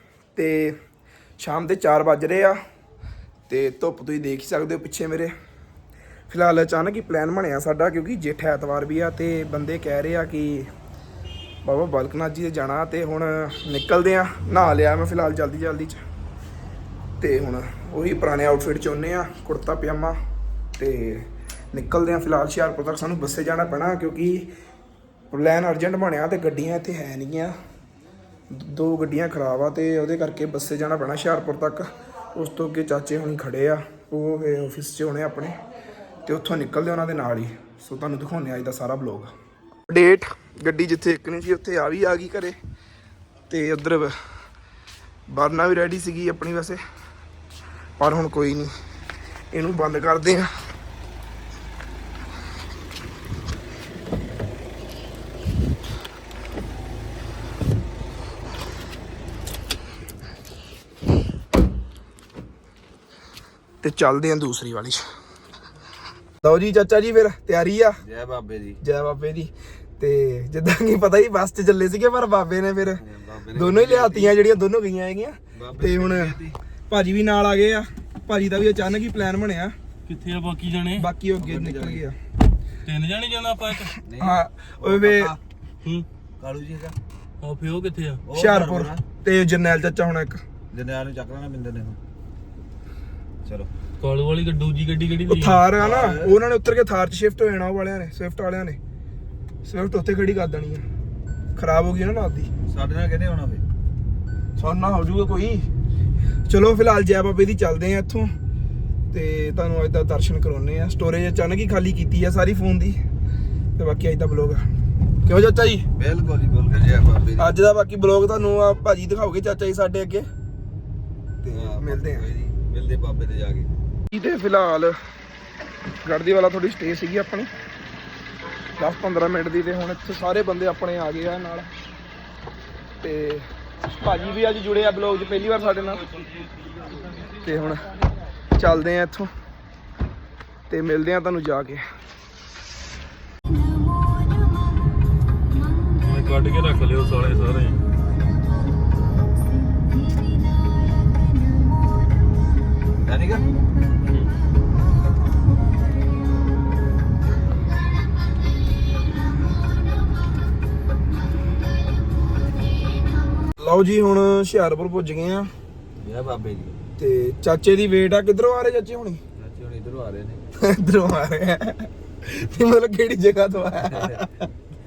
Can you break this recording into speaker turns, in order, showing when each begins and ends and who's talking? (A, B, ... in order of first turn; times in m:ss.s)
0:00.4-0:00.8 A
0:01.4-0:02.6 A
0:03.5-0:05.3 A
0:06.3-0:10.7 A
0:11.6-0:16.0 A
0:17.2-0:20.2 A
0:20.8-0:24.5 A
0:25.3-0:27.5 A
0:28.5-0:35.6 A
0:36.3-0:39.3 A
0:39.9-0:42.6 A
0:43.5-0:44.1 A
0:45.3-0:46.8 A
0:48.0-0:48.7 A
0:49.5-0:50.5 A
1:03.8-1:05.0 A
1:06.4-1:08.0 A
1:08.0-1:08.8 B
1:08.8-1:13.0 A
1:13.0-1:14.4 B
1:13.6-1:16.4 A
1:15.6-1:16.6 B
1:16.9-1:19.8 A
1:20.1-1:21.0 C
1:21.0-1:22.2 A
1:21.4-1:22.0 B
1:22.8-1:24.0 C
1:24.0-1:25.4 B
1:24.2-1:25.3 A
1:26.4-1:27.0 B
1:27.4-1:28.2 C
1:28.2-1:29.0 B
1:28.3-1:30.4 A
1:30.7-1:32.0 B
1:33.4-1:33.7 B
1:34.0-1:35.6 C
1:35.2-1:38.8 A
1:35.8-1:36.4 B
1:39.6-1:40.8 A
1:41.6-1:42.5 A
1:42.7-1:43.6 B
1:44.6-1:45.6 A
1:46.5-1:48.3 A
1:49.1-1:53.0 A
1:53.8-1:54.7 A
1:55.2-1:55.8 A
1:56.0-1:57.5 B
1:57.4-2:00.3 A
2:01.4-2:02.2 A
2:01.5-2:03.7 B
2:04.1-2:05.0 A
2:06.0-2:07.5 A
2:08.8-2:11.7 A
2:13.0-2:16.1 A
2:16.1-2:16.7 C
2:17.4-2:17.9 A
2:18.6-2:19.3 A
2:20.7-2:21.8 A
2:25.9-2:27.8 C
2:33.0-2:33.5 B
2:43.6-2:45.5 A
2:46.0-2:46.8 B
2:47.0-2:49.2 A
2:49.4-2:50.4 B
2:50.6-2:54.3 A
2:53.9-2:54.3 B